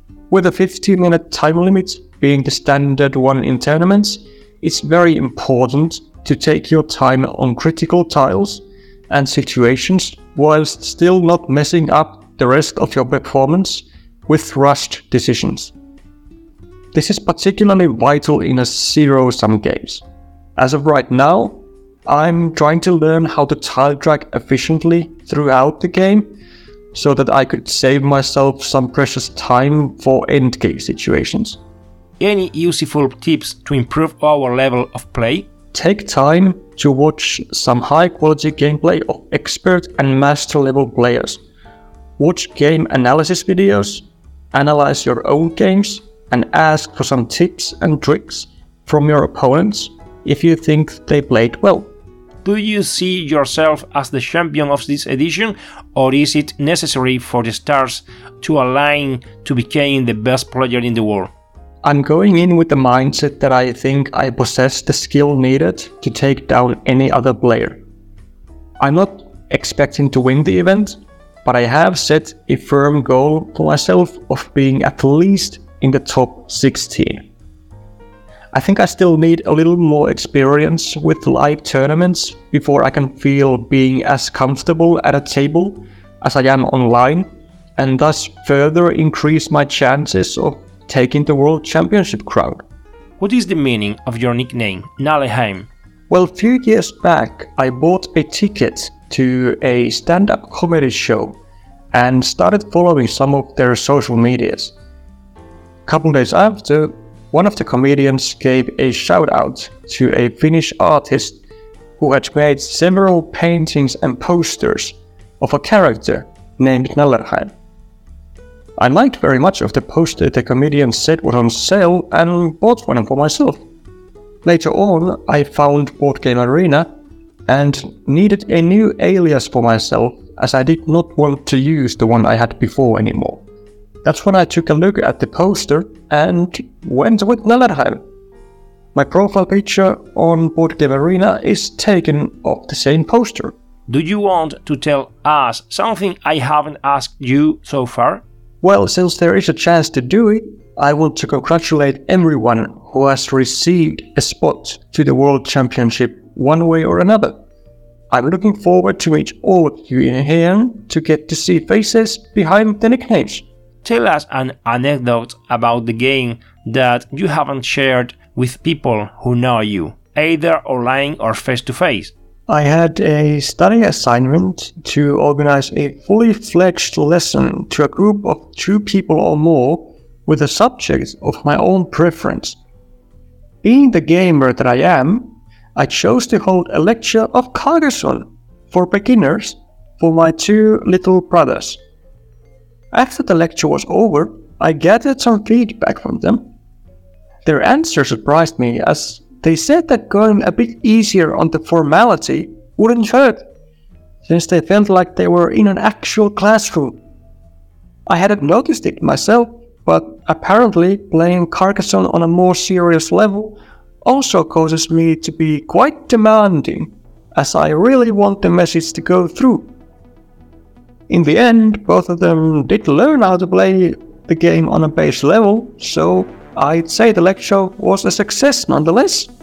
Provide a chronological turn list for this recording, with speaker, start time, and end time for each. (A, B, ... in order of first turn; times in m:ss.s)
0:00.3-0:15.7 A
0:16.9-0:20.0 A
0:20.6-0:26.3 A
0:26.9-0:31.6 A
0:32.2-0:35.5 B
0:35.7-0:41.4 A
0:42.2-0:51.9 A
0:52.4-1:01.3 B
1:01.8-1:07.8 A
1:08.8-1:17.2 A
1:18.5-1:27.3 A
1:27.8-1:32.6 A
1:33.2-1:35.7 B
1:36.1-1:41.4 A
1:41.9-1:44.7 A
1:45.9-1:51.4 A
1:52.0-1:57.5 A
1:58.8-2:03.6 A
2:04.4-2:06.9 A
2:07.5-2:13.4 A
2:14.0-2:18.0 A
2:18.9-2:23.5 A
2:23.9-2:28.2 B
2:28.6-2:37.4 A
2:38.1-2:43.4 A
2:43.8-2:52.1 B
2:52.5-3:02.6 A
3:03.6-3:11.8 A
3:12.9-3:16.5 A
3:17.4-3:23.5 A
3:24.2-3:27.0 A
3:28.1-3:39.7 A
3:41.1-3:49.3 A